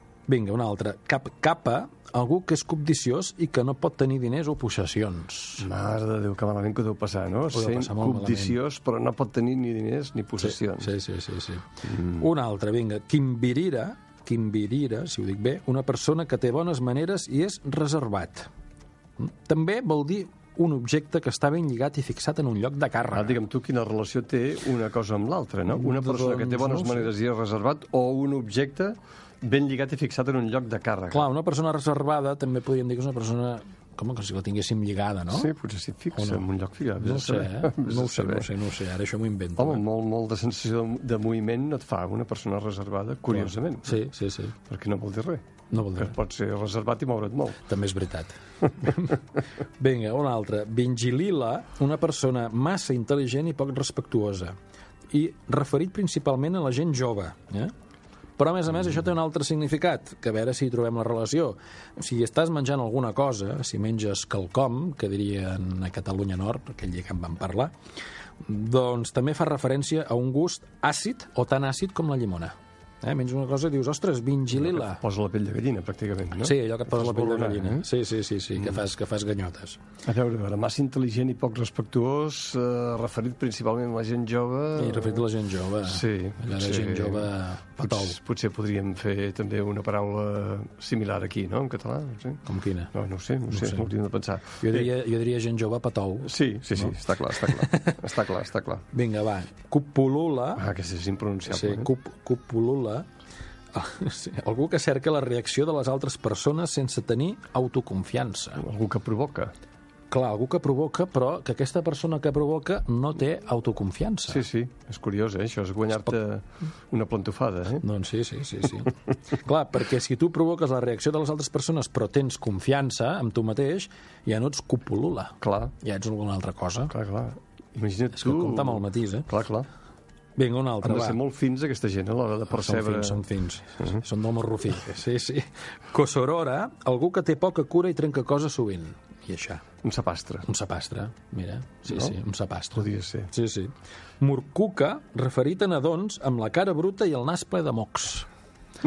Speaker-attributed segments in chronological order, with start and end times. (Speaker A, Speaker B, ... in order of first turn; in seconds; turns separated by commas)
Speaker A: 0.3-5.7, Speaker B: 5.6-10.9, Speaker A: 7.5-8.6, Speaker A: 10.4-18.5, Speaker A: 19.2-23.4, Speaker B: 23.1-31.3, Speaker A: 25.8-27.1, Speaker A: 31.1-35.5, Speaker B: 35.3-38.5, Speaker A: 36.1-36.5, Speaker A: 37.0-39.8, Speaker B: 39.6-44.0, Speaker A: 43.3-44.6, Speaker B: 44.7-47.6, Speaker A: 45.7-46.1, Speaker A: 47.7-49.2, Speaker A: 49.8-54.6, Speaker A: 55.1-57.7, Speaker A: 58.4-67.7, Speaker A: 68.4-75.0, Speaker B: 74.5-77.9, Speaker A: 76.4-79.8, Speaker B: 80.0-85.3, Speaker A: 84.8-88.2, Speaker B: 85.8-92.4, Speaker A: 92.5-92.9, Speaker B: 92.9-94.9, Speaker A: 93.5-93.9, Speaker A: 94.5-98.0, Speaker B: 96.2-98.8, Speaker A: 98.9-100.6, Speaker B: 100.6-101.9, Speaker A: 101.5-103.1, Speaker A: 103.7-108.6, Speaker B: 108.6-109.5, Speaker A: 110.1-114.5, Speaker B: 114.3-117.8, Speaker A: 117.8-126.9, Speaker B: 125.4-125.7, Speaker B: 126.9-129.7, Speaker A: 128.2-129.3, Speaker A: 130.4-131.2, Speaker B: 130.8-133.2, Speaker A: 132.5-139.7, Speaker B: 139.8-140.5, Speaker A: 140.4-148.3, Speaker B: 142.8-143.3